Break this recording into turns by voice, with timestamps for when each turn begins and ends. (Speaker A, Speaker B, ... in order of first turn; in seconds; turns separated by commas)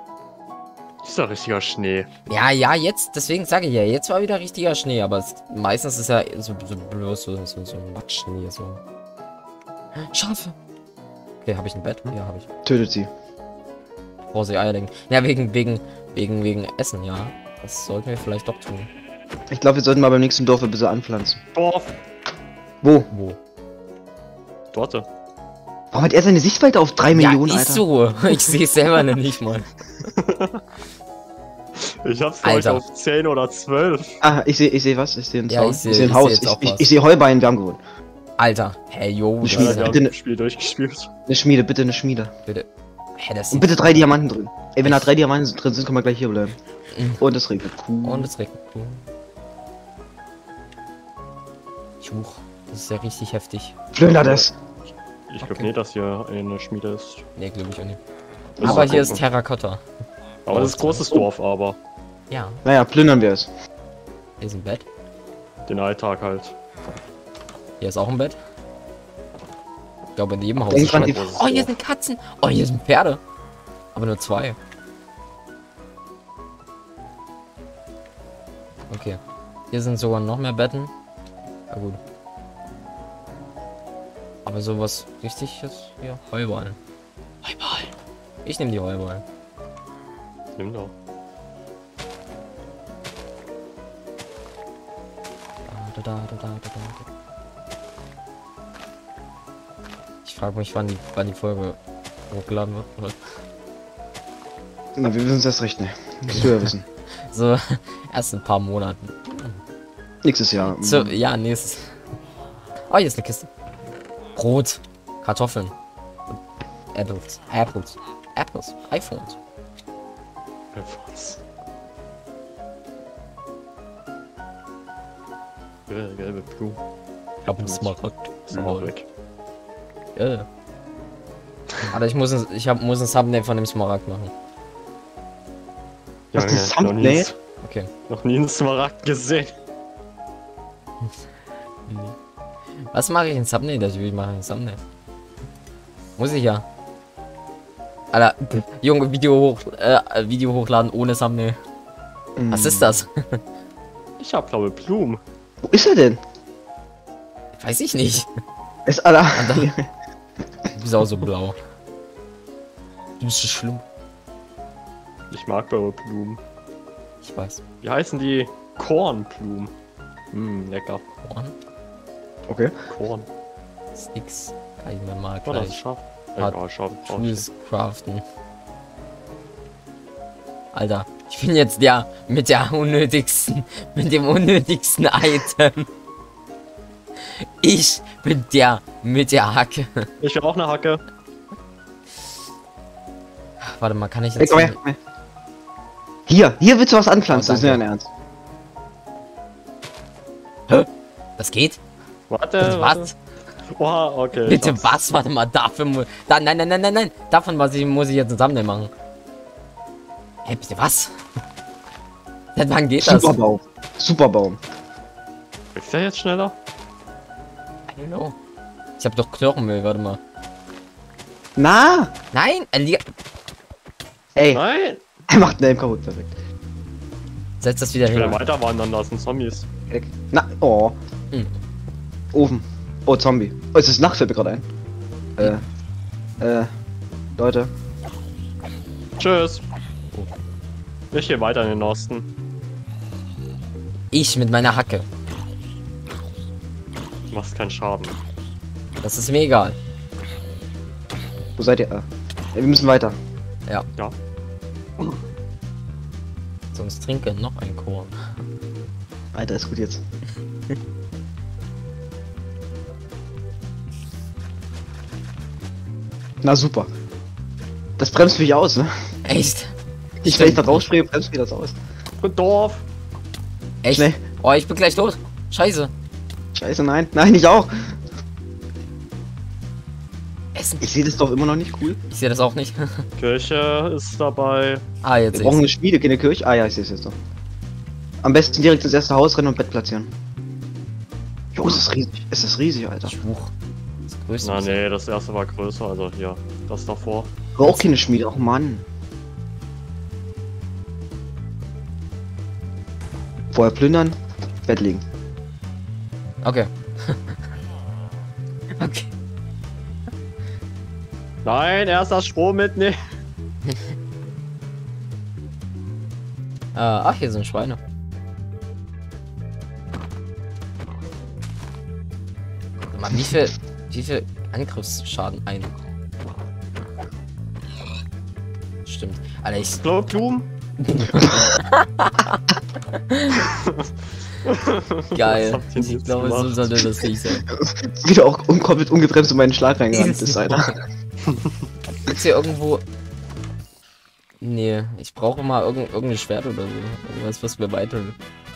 Speaker A: 1.0-2.1, Speaker B: 2.3-8.8, Speaker B: 10.0-10.6, Speaker B: 11.4-12.5, Speaker C: 12.7-13.1, Speaker B: 14.3-18.9, Speaker C: 19.5-21.4, Speaker A: 21.6-22.0, Speaker C: 22.8-23.1, Speaker B: 23.1-23.4, Speaker A: 24.7-25.1, Speaker C: 25.9-27.8, Speaker B: 27.1-29.7, Speaker A: 30.1-30.6, Speaker A: 31.8-34.2, Speaker B: 32.4-32.8, Speaker C: 34.2-37.8, Speaker B: 35.5-36.9, Speaker B: 38.4-40.0, Speaker C: 39.4-40.1, Speaker A: 39.5-41.1, Speaker C: 41.3-42.3, Speaker B: 42.5-44.0, Speaker C: 43.5-46.6, Speaker B: 44.8-45.1, Speaker B: 46.9-47.2, Speaker C: 47.2-48.3, Speaker B: 48.0-49.0, Speaker B: 52.0-53.8, Speaker C: 53.9-54.5, Speaker A: 54.0-54.5, Speaker A: 55.3-57.2, Speaker B: 55.4-55.7, Speaker B: 57.4-58.0, Speaker A: 58.6-59.2, Speaker C: 58.6-59.1, Speaker B: 58.6-59.8, Speaker A: 60.5-61.8, Speaker B: 60.5-61.1, Speaker B: 62.3-62.6, Speaker C: 62.6-63.5, Speaker B: 64.4-64.8, Speaker A: 65.7-66.5, Speaker B: 67.8-68.4, Speaker B: 70.2-73.2, Speaker C: 70.7-71.2, Speaker A: 70.7-71.8, Speaker B: 73.9-74.6, Speaker B: 78.9-79.2, Speaker B: 79.7-80.9, Speaker B: 81.7-82.0, Speaker B: 84.4-86.8, Speaker B: 87.4-87.9, Speaker B: 88.4-89.2, Speaker A: 90.6-90.9, Speaker B: 95.7-97.1, Speaker B: 100.2-101.8, Speaker B: 102.3-103.2, Speaker C: 105.0-106.8, Speaker B: 107.2-109.6, Speaker C: 110.2-111.2, Speaker B: 110.6-111.9, Speaker B: 112.9-113.5, Speaker B: 114.3-115.7, Speaker B: 116.9-119.4, Speaker A: 120.7-121.4, Speaker A: 125.9-126.8, Speaker B: 127.4-128.9, Speaker A: 127.4-129.1, Speaker B: 130.2-130.5, Speaker B: 131.9-134.3, Speaker A: 136.3-137.3, Speaker C: 136.3-137.3, Speaker B: 137.6-137.9, Speaker A: 138.1-139.5, Speaker B: 141.9-142.1, Speaker B: 142.9-144.8, Speaker B: 146.2-146.6, Speaker B: 148.1-151.6, Speaker C: 152.4-153.0, Speaker B: 152.5-153.4, Speaker A: 154.2-155.2, Speaker C: 155.6-156.2, Speaker B: 157.6-158.3, Speaker C: 158.9-159.9, Speaker B: 159.3-159.7, Speaker B: 160.7-161.6, Speaker B: 163.2-163.8, Speaker A: 165.3-166.4, Speaker B: 167.2-167.6, Speaker A: 167.8-169.7, Speaker A: 170.3-171.0, Speaker B: 171.2-171.6, Speaker C: 172.5-172.8, Speaker A: 172.9-173.3, Speaker B: 173.9-175.8, Speaker A: 175.4-177.4, Speaker B: 177.1-178.2, Speaker B: 180.7-185.9, Speaker B: 187.2-190.1, Speaker A: 190.2-191.0, Speaker B: 193.6-194.8, Speaker C: 194.4-195.0, Speaker C: 196.3-198.1, Speaker B: 197.3-197.8, Speaker B: 200.7-201.8, Speaker A: 202.3-203.1, Speaker B: 202.6-203.1, Speaker A: 203.7-205.0, Speaker B: 204.4-208.9, Speaker B: 210.4-211.1, Speaker B: 212.6-213.4, Speaker C: 213.0-214.6, Speaker A: 215.8-216.6, Speaker B: 217.9-218.3, Speaker B: 219.0-220.2, Speaker C: 221.6-222.1, Speaker B: 222.3-223.0, Speaker C: 224.4-224.6, Speaker A: 224.5-225.0, Speaker C: 225.3-226.3, Speaker B: 227.6-228.4, Speaker A: 228.1-229.7, Speaker C: 229.9-230.9, Speaker C: 232.3-234.6, Speaker C: 235.4-235.6, Speaker C: 236.4-236.7, Speaker C: 237.4-237.7, Speaker A: 239.2-239.6, Speaker A: 241.1-242.3, Speaker B: 244.1-245.1, Speaker A: 247.3-248.2, Speaker B: 249.0-249.8, Speaker C: 251.6-253.1, Speaker B: 256.7-258.2, Speaker C: 259.3-260.0, Speaker C: 266.4-266.9, Speaker C: 268.0-268.9, Speaker B: 269.2-269.7, Speaker C: 270.2-271.8, Speaker B: 270.2-270.9, Speaker A: 272.2-272.9, Speaker B: 273.8-275.9, Speaker C: 273.9-274.2, Speaker C: 276.6-277.9, Speaker B: 280.6-280.9, Speaker C: 280.8-282.0, Speaker B: 282.1-283.0, Speaker A: 283.2-284.8, Speaker B: 285.0-285.7, Speaker C: 285.3-287.1, Speaker C: 288.2-290.1, Speaker C: 291.6-293.2, Speaker B: 293.1-293.5, Speaker B: 294.1-294.8, Speaker A: 294.4-297.3, Speaker C: 297.6-298.9, Speaker B: 297.6-298.0, Speaker C: 303.5-305.0, Speaker B: 306.4-307.4, Speaker B: 308.8-309.1, Speaker A: 311.4-313.0, Speaker B: 316.8-317.8, Speaker B: 322.9-325.7, Speaker B: 328.9-329.8, Speaker A: 329.8-330.5, Speaker B: 330.8-332.4, Speaker C: 331.1-331.4, Speaker B: 332.9-333.4, Speaker A: 333.5-333.9, Speaker A: 334.4-336.8, Speaker B: 335.1-337.4, Speaker C: 337.2-340.8, Speaker B: 339.9-340.7, Speaker A: 341.2-341.6, Speaker B: 342.1-342.8, Speaker B: 344.4-348.2